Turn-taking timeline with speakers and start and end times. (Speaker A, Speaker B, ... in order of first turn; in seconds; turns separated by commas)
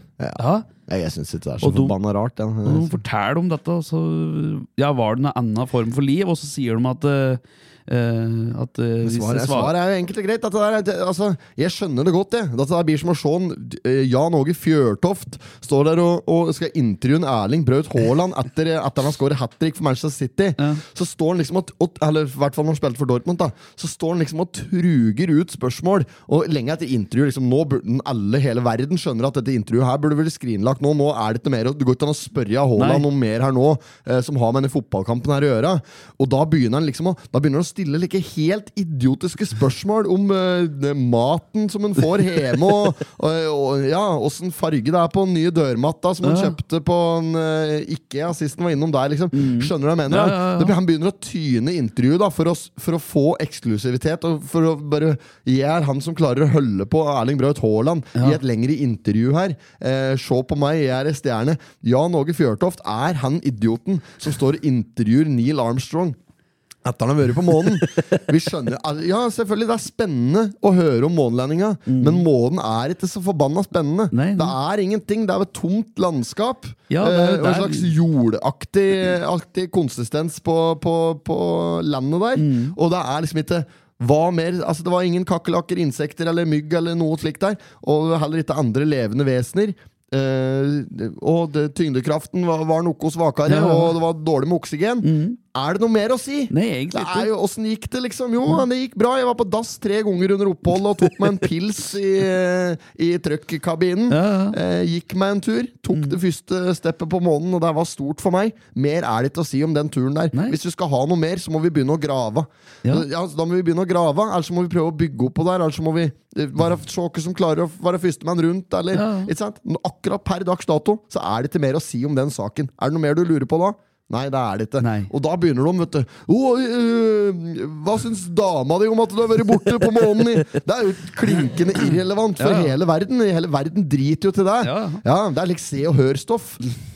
Speaker A: 0.2-3.0, Speaker B: 0.3-0.7, Speaker B: 1.6-1.9, Speaker B: 2.6-9.7, Speaker A: 9.0-66.2, Speaker B: 32.8-33.1, Speaker B: 46.2-46.5, Speaker B: 49.3-50.7, Speaker A: 66.8-136.7, Speaker B: 71.9-72.2, Speaker B: 74.1-74.5, Speaker B: 76.9-77.9, Speaker B: 82.3-82.8, Speaker B: 93.5-94.0, Speaker B: 95.0-95.4, Speaker B: 96.5-97.3, Speaker B: 104.1-104.6, Speaker B: 110.3-110.6, Speaker B: 118.9-119.3, Speaker B: 124.8-125.1, Speaker B: 132.4-132.7, Speaker B: 134.6-135.0